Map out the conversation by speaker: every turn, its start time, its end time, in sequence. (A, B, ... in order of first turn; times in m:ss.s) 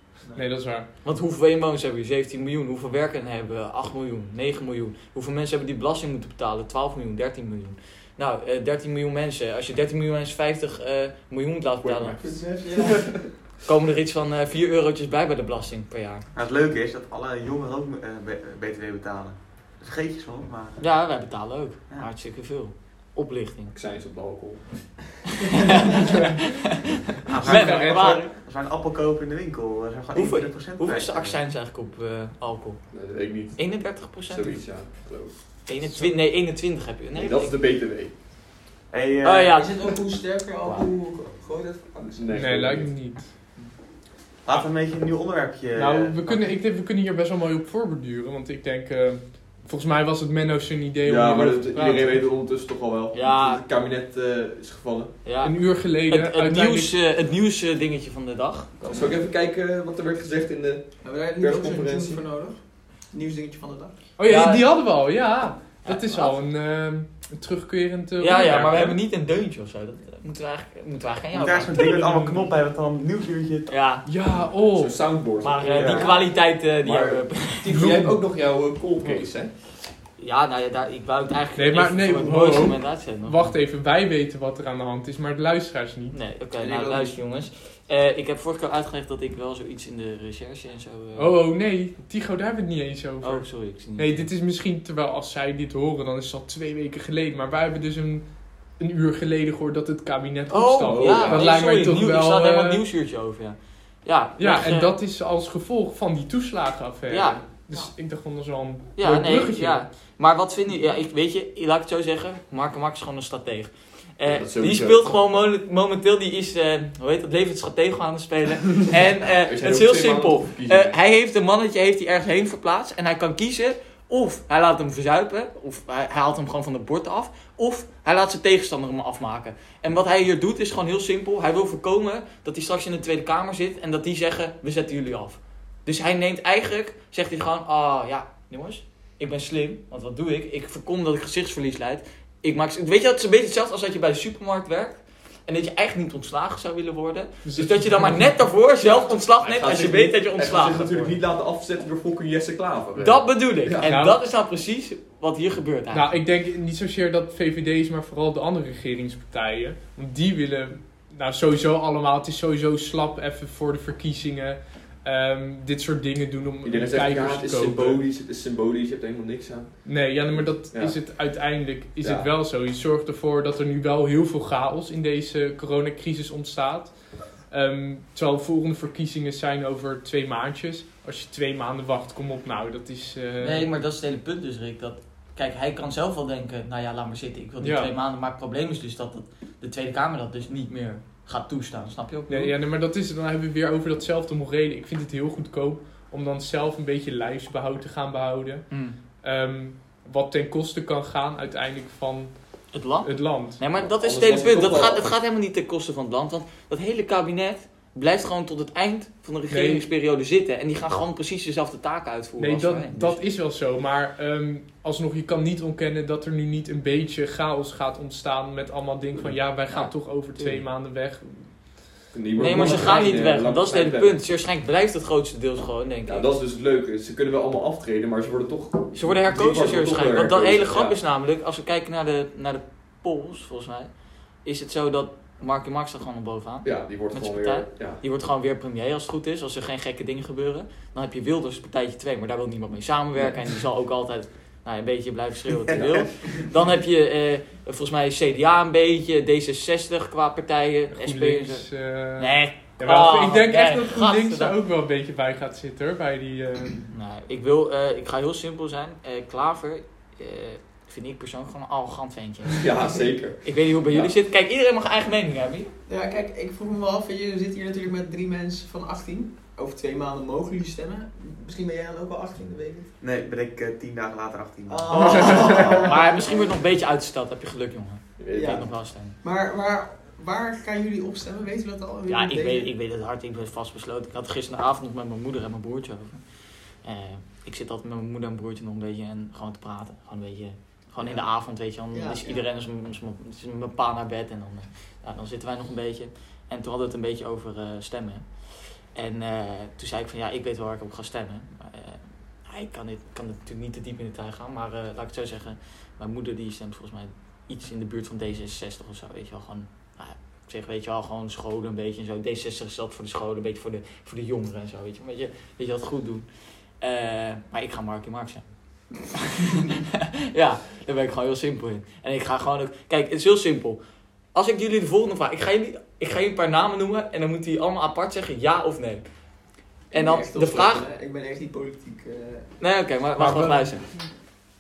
0:00.4-0:00.9 A
0:01.0-0:12.2 B
0:11.8-0:13.3 C
0:12.2-0:13.1 D
0:13.6-0:16.3 B
0:16.3-0:20.8 E
0:20.8-0:23.8 B
0:23.7-0:25.0 C
0:25.4-0:26.7 B
0:27.3-0:31.4 E
0:27.4-0:28.3 B
0:27.4-0:28.3 A
0:30.1-0:34.6 B
0:32.9-0:36.1 C
0:35.7-0:37.6 B
0:37.1-0:38.1 C
0:38.9-0:39.6 E
0:39.2-0:39.8 B
0:39.5-0:42.3 D
0:42.1-0:43.0 C
0:42.3-0:43.3 A
0:44.4-0:46.3 E
0:45.8-0:52.2 A
0:51.0-0:55.2 C
0:53.1-0:53.6 B
0:55.2-0:58.8 B
0:55.4-0:57.0 A
0:58.9-1:02.2 C
1:01.0-1:03.9 D
1:04.2-1:09.0 A
1:04.2-1:04.7 B
1:05.8-1:06.4 B
1:08.2-1:12.0 B
1:11.3-1:13.7 E
1:11.7-1:12.5 A
1:13.7-1:14.0 B
1:14.0-1:15.0 A
1:14.7-1:19.5 C
1:15.4-1:17.9 B
1:15.7-1:16.1 E
1:17.7-1:18.2 A
1:20.2-1:23.6 B
1:21.6-1:26.2 A
1:26.1-1:31.3 B
1:26.6-1:27.2 D
1:31.2-1:42.8 A
1:33.2-1:34.3 B
1:40.5-1:44.9 B
1:40.8-1:41.5 C
1:44.4-1:49.8 A
1:47.1-1:47.4 B
1:49.0-2:31.2 B
1:54.2-1:55.2 C
1:59.3-2:01.0 C
2:27.4-2:28.4 A
2:29.4-2:34.0 C
2:33.0-2:36.1 B
2:33.8-2:34.2 A
2:35.9-2:48.0 A
2:46.6-2:51.1 C
2:49.8-3:03.7 A
2:52.0-2:52.3 C
3:03.4-3:12.5 B
3:07.6-3:07.9 A
3:12.3-3:23.6 A
3:18.7-3:19.0 B
3:22.7-3:33.2 B
3:23.8-3:25.1 C
3:29.5-3:29.9 A
3:32.4-3:41.9 A
3:39.2-3:39.4 C
3:39.7-3:39.9 B
3:40.4-3:40.6 C
3:42.1-3:44.2 C
3:42.4-3:46.3 B
3:42.7-3:43.0 A
3:46.1-3:51.0 C
3:48.9-3:53.9 B
3:54.4-4:11.7 B
3:56.6-3:58.0 C
4:03.2-4:03.5 C
4:05.7-4:06.4 C
4:05.7-4:06.0 E
4:10.9-4:16.8 A
4:12.2-4:14.6 B
4:16.9-4:22.6 B
4:22.5-4:24.1 C
4:23.4-4:25.7 B
4:25.9-4:32.9 D
4:33.0-4:35.7 E
4:34.7-4:36.6 D
4:34.9-4:39.2 B
4:35.0-4:35.8 A
4:38.2-4:38.7 C
4:38.3-4:38.7 D
4:39.2-4:42.7 D
4:42.1-4:46.2 B
4:46.8-4:58.3 B
4:51.0-4:51.3 D
4:51.9-4:52.4 D
4:58.9-5:16.2 B
5:16.8-5:18.5 B
5:19.0-5:23.8 B
5:24.3-5:29.0 B
5:29.9-5:30.8 B
5:29.9-5:32.5 D
5:32.6-5:33.9 B
5:33.2-5:33.9 A